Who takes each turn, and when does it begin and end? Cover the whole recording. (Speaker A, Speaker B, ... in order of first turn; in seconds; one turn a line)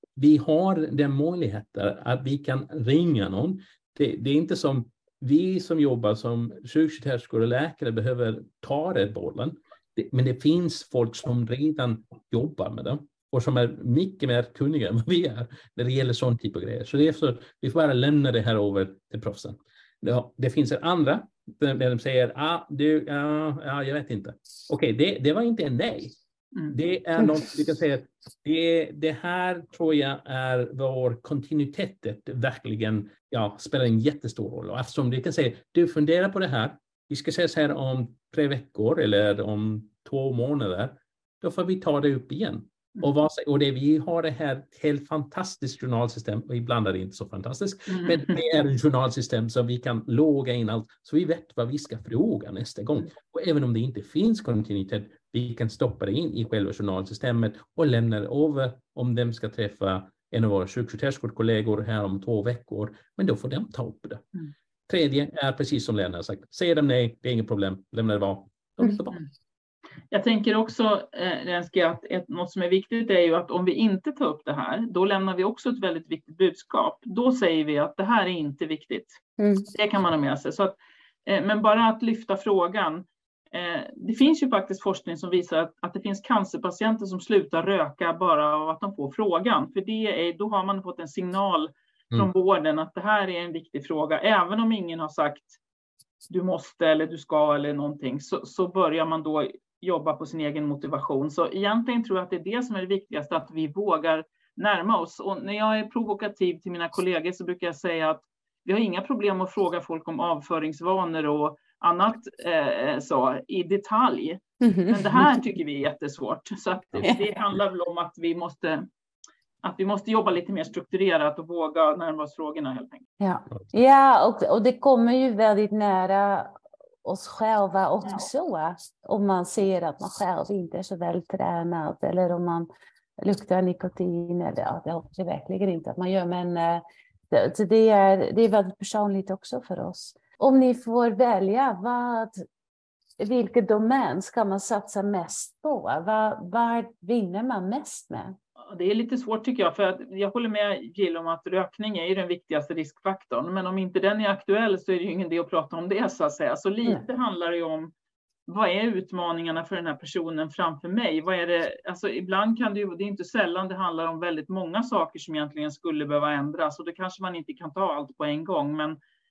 Speaker A: 0.1-64.2
Speaker A: 64.9-69.2
Speaker B: 70.1-79.2
Speaker C: 79.4-79.7
Speaker B: 79.7-95.6
Speaker B: 96.3-118.9
Speaker C: 114.6-115.3
Speaker B: 119.6-123.1
Speaker C: 123.2-126.5
Speaker C: 127.0-132.7
Speaker C: 133.2-142.4
Speaker C: 143.2-148.4
Speaker B: 148.7-157.9
Speaker B: 158.5-169.0